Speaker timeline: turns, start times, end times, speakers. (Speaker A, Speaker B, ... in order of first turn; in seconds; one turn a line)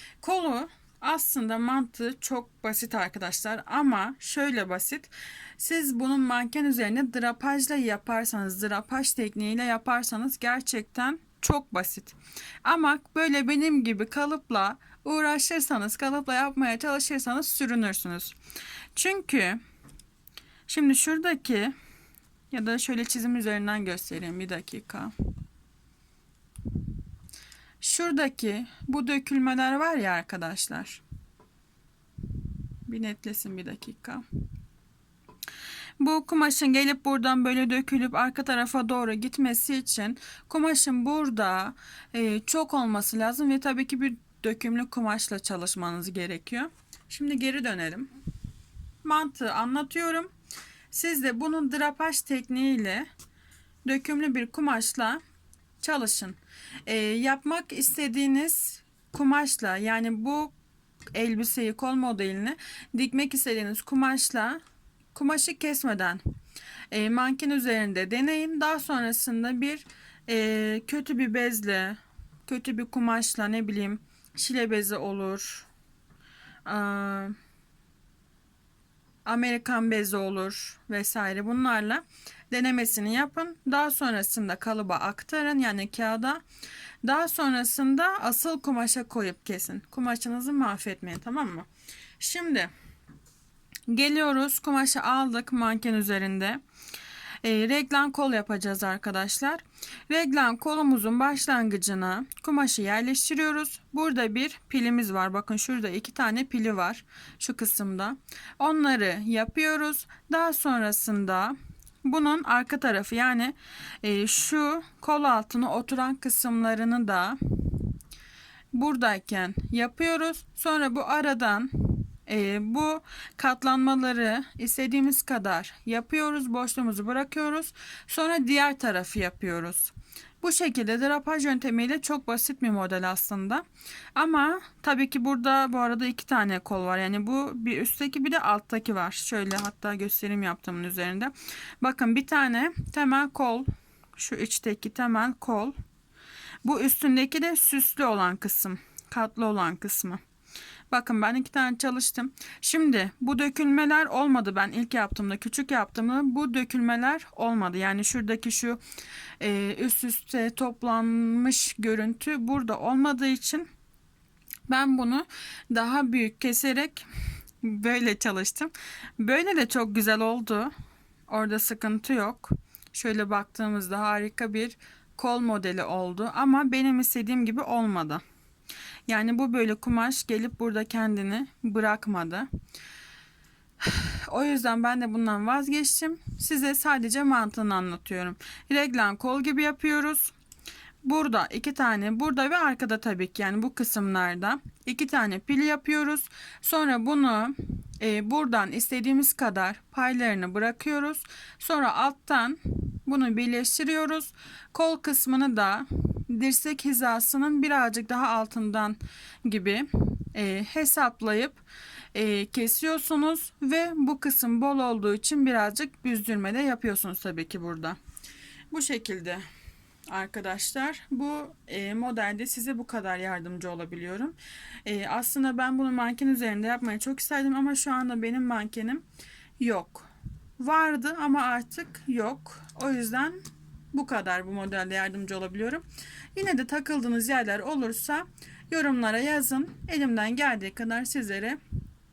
Speaker A: 0.2-18.4
Speaker A: 18.9-19.6
Speaker A: 20.7-21.7
Speaker A: 22.5-25.1
Speaker A: 27.8-31.0
Speaker A: 32.9-34.2
Speaker A: 36.0-48.1
Speaker A: 49.0-50.3
Speaker A: 50.9-53.1
Speaker A: 53.9-55.2
Speaker A: 55.8-60.5
Speaker A: 61.1-64.6
Speaker A: 65.1-66.2
Speaker A: 66.9-75.7
Speaker A: 76.7-77.3
Speaker A: 79.2-86.4
Speaker A: 87.0-91.7
Speaker A: 92.2-92.7
Speaker A: 93.9-96.6
Speaker A: 97.4-117.9
Speaker A: 118.7-133.6
Speaker A: 134.2-145.7
Speaker A: 146.6-150.2
Speaker A: 150.9-158.8
Speaker A: 159.4-163.7
Speaker A: 164.7-167.1
Speaker A: 167.6-170.7
Speaker A: 171.3-178.2
Speaker A: 179.1-182.5
Speaker A: 183.8-190.3
Speaker A: 191.0-211.6
Speaker A: 212.1-218.0
Speaker A: 218.7-219.4
Speaker A: 220.1-229.1
Speaker A: 229.6-233.4
Speaker A: 233.9-241.6